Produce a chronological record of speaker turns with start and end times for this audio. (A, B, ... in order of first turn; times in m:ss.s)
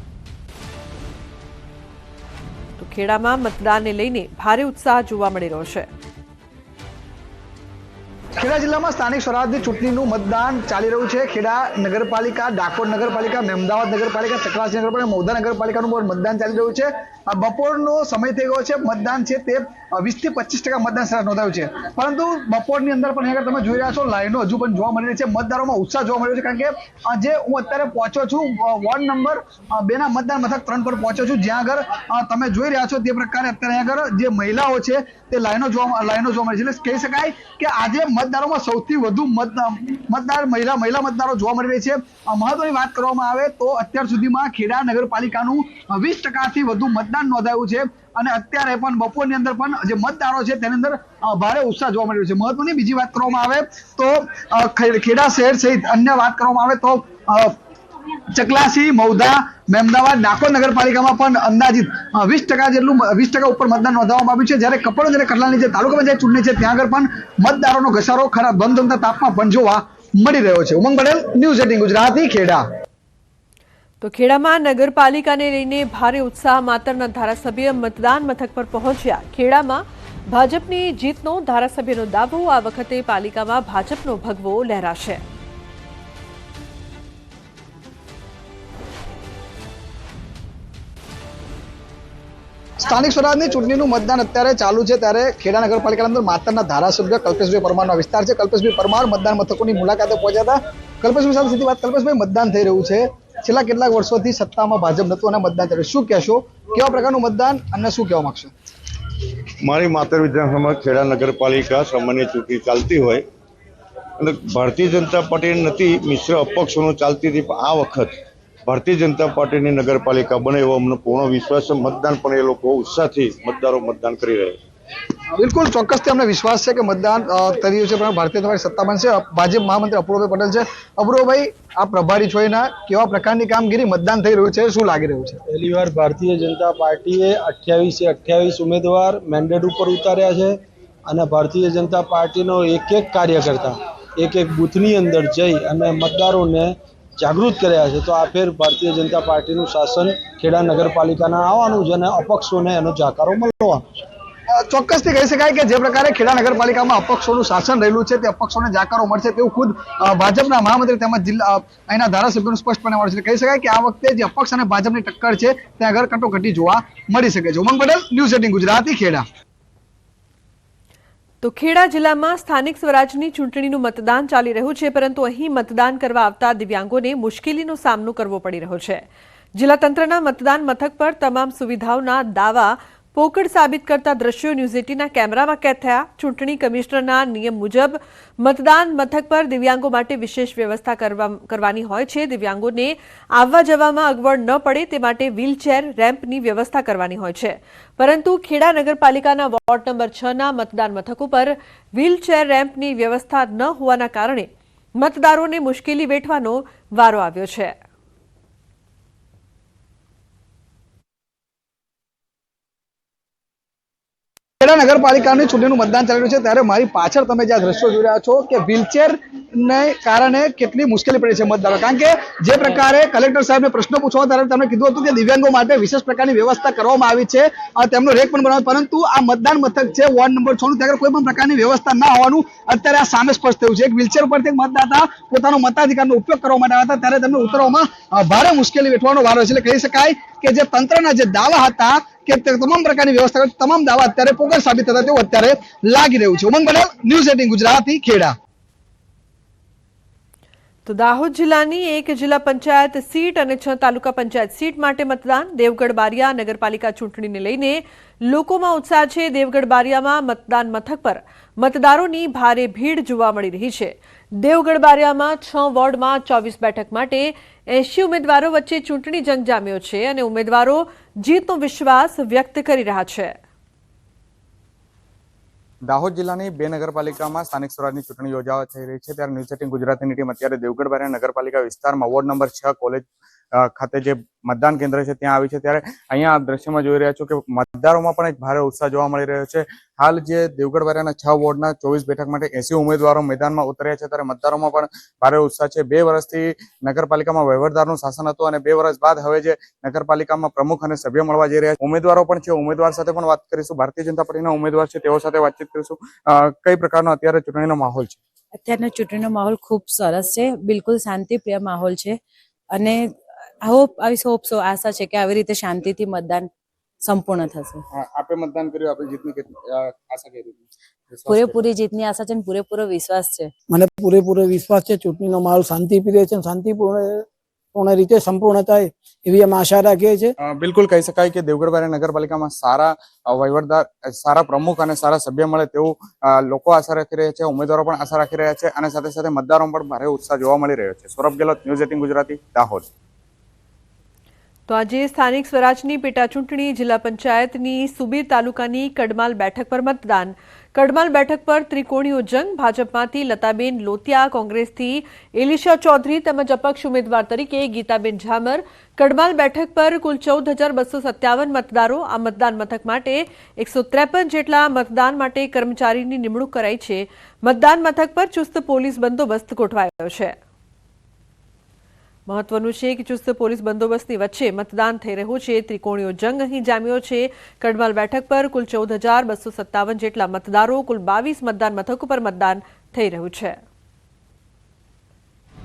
0:02.8-0:05.9 A
0:08.4-0:57.6 B
0:58.3-1:12.6 B
1:14.0-1:25.2 A
1:32.9-1:48.5 B
1:49.6-1:53.2 C
1:54.2-1:58.1 C
1:58.7-2:04.6 C
2:05.3-2:15.4 B
2:15.5-2:33.8 D
2:34.5-2:49.2 B
2:51.4-2:59.0 A
2:59.6-3:24.5 A
3:25.0-3:27.8 A
3:34.6-4:08.3 B
4:10.9-4:33.3 A
4:35.9-5:08.2 E
5:08.5-5:12.2 F
5:12.7-5:16.5 F
5:17.0-5:17.8 F
5:17.9-5:21.6 E
5:21.3-5:23.5 F
5:23.7-5:30.3 G
5:30.4-5:42.8 E
5:44.7-6:10.4 A
6:12.3-6:23.6 A